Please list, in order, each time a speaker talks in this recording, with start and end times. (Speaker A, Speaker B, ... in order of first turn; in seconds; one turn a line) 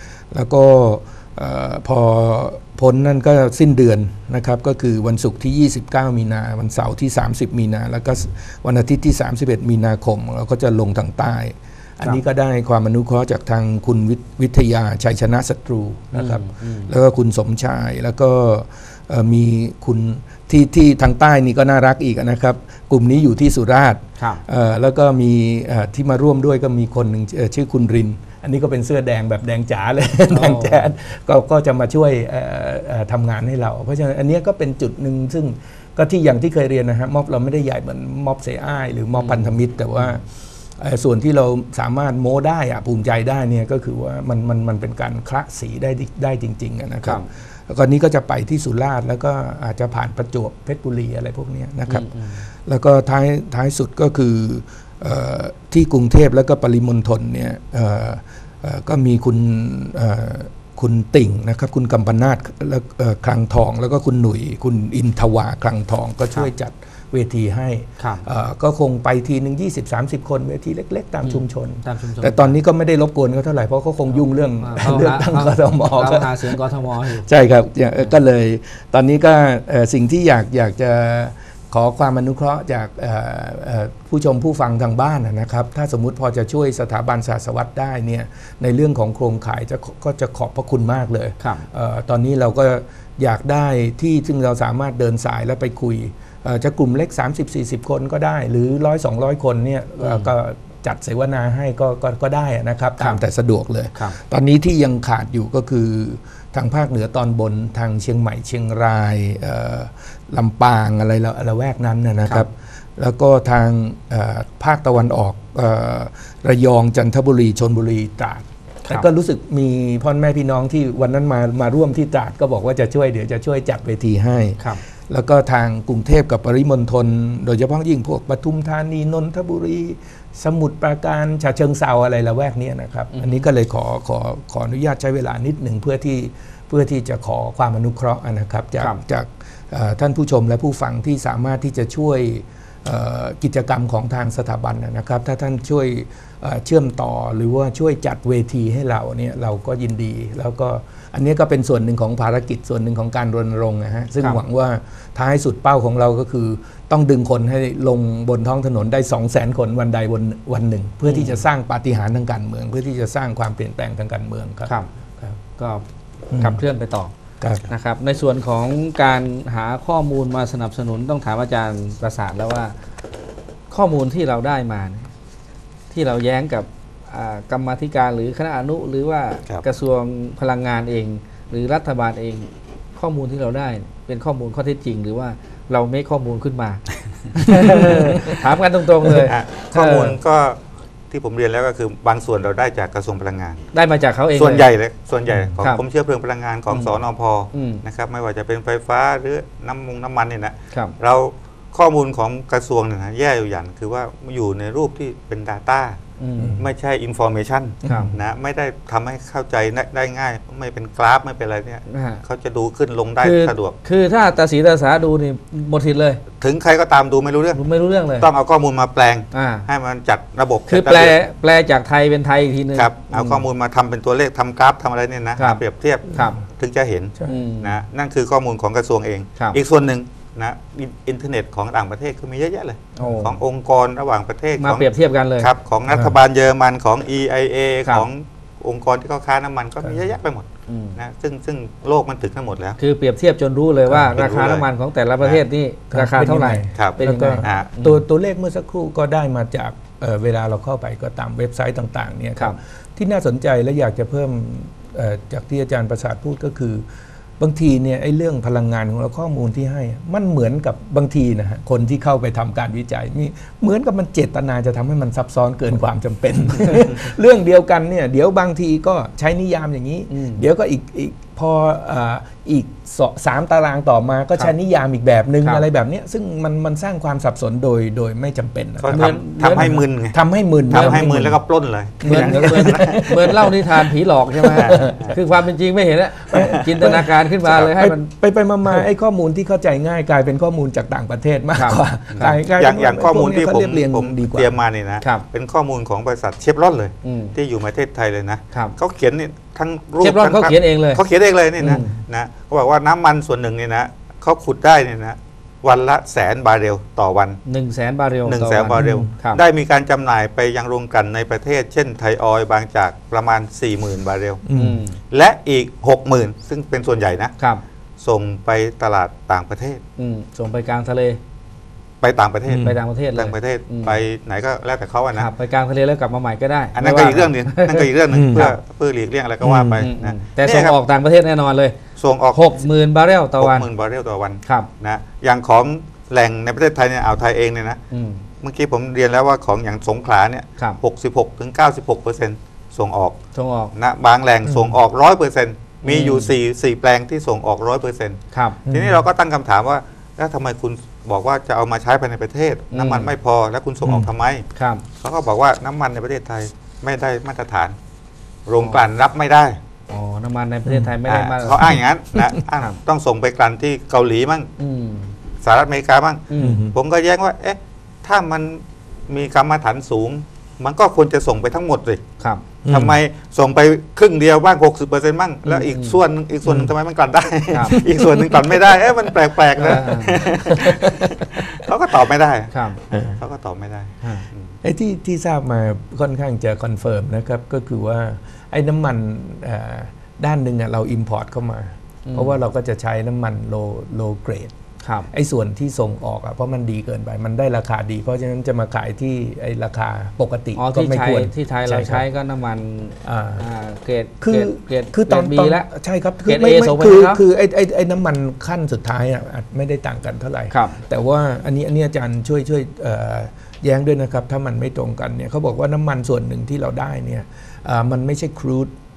Speaker A: 0.3-40.3
Speaker B: 16.1-16.9
Speaker B: 30.3-30.9
Speaker B: 39.1-40.2
Speaker A: 40.8-165.4
Speaker B: 51.9-52.5
Speaker B: 68.0-68.3
Speaker B: 71.2-72.6
Speaker B: 74.1-77.3
Speaker B: 91.4-91.7
Speaker B: 100.0-100.3
Speaker B: 103.0-103.2
Speaker B: 133.1-133.5
Speaker B: 161.1-161.4
Speaker B: 165.6-167.1
Speaker A: 166.3-166.6
Speaker A: 167.4-167.7
Speaker B: 167.7-172.8
Speaker B: 173.7-175.1
Speaker B: 175.9-190.2
Speaker A: 187.8-188.4
Speaker C: 189.2-193.6
Speaker B: 193.7-194.7
Speaker C: 194.3-206.0
Speaker A: 195.3-195.6
Speaker B: 196.7-197.0
Speaker B: 197.5-197.8
Speaker B: 206.2-206.6
Speaker A: 206.4-206.7
Speaker C: 206.6-213.8
Speaker A: 207.8-208.2
Speaker B: 207.8-208.1
Speaker B: 211.9-212.2
Speaker B: 213.2-216.2
Speaker C: 216.4-217.6
Speaker B: 217.6-218.3
Speaker C: 218.2-221.2
Speaker B: 219.3-219.7
Speaker B: 220.7-223.4
Speaker C: 222.7-242.8
Speaker B: 225.4-226.4
Speaker B: 227.3-227.8
Speaker B: 233.0-233.3
Speaker B: 234.6-235.5
Speaker A: 235.9-236.2
Speaker B: 240.7-241.0
Speaker B: 242.8-248.0
Speaker A: 243.9-244.2
Speaker C: 244.1-244.7
Speaker A: 245.9-256.9
Speaker C: 246.8-247.7
Speaker A: 257.4-281.4
Speaker B: 270.1-270.5
Speaker B: 275.4-275.7
Speaker C: 278.8-280.2
Speaker B: 278.9-279.8
Speaker B: 280.7-281.1
Speaker C: 280.7-283.3
Speaker A: 282.0-285.2
Speaker B: 282.0-288.1
Speaker C: 284.6-285.2
Speaker A: 286.3-294.6
Speaker B: 291.6-292.4
Speaker C: 292.1-307.4
Speaker B: 297.0-297.4
Speaker B: 300.0-301.0
Speaker B: 301.6-302.0
Speaker A: 301.6-301.9
Speaker B: 307.5-309.4
Speaker C: 308.3-314.4
Speaker A: 308.8-309.1
Speaker A: 314.5-314.8
Speaker B: 314.5-315.0
Speaker C: 315.1-317.3
Speaker C: 318.0-319.8
Speaker B: 320.0-321.2
Speaker C: 322.0-325.3
Speaker A: 322.5-322.8
Speaker B: 322.6-324.0
Speaker B: 325.1-328.6
Speaker C: 326.8-330.8
Speaker A: 328.1-328.5
Speaker A: 329.4-329.9
Speaker B: 329.8-331.8
Speaker C: 332.0-332.7
Speaker B: 332.3-333.7
Speaker C: 333.4-337.8
Speaker B: 337.9-338.2
Speaker C: 338.4-343.2
Speaker B: 343.3-343.7
Speaker C: 343.7-354.4
Speaker B: 345.8-346.4
Speaker B: 348.3-348.6
Speaker A: 348.6-349.0
Speaker B: 352.7-353.1
Speaker A: 353.8-354.1
Speaker B: 354.6-354.8
Speaker C: 355.0-357.8
Speaker C: 358.5-359.6
Speaker B: 359.9-361.7
Speaker A: 360.7-360.9
Speaker C: 361.1-364.5
Speaker A: 361.6-362.4
Speaker B: 364.6-365.1
Speaker C: 365.4-372.0
Speaker B: 366.3-366.6
Speaker A: 366.4-366.8
Speaker A: 372.6-373.0
Speaker C: 372.7-384.5
Speaker B: 375.4-376.0
Speaker A: 376.4-376.7
Speaker B: 377.5-377.8
Speaker A: 377.6-381.7
Speaker B: 379.6-380.2
Speaker B: 382.5-382.8
Speaker A: 382.9-383.2
Speaker B: 384.0-384.3
Speaker A: 384.6-394.5
Speaker B: 392.1-392.4
Speaker B: 394.8-395.1
Speaker A: 395.1-402.1
Speaker B: 400.6-405.7
Speaker A: 403.0-403.5
Speaker A: 404.2-418.7
Speaker B: 406.2-407.2
Speaker B: 410.5-410.8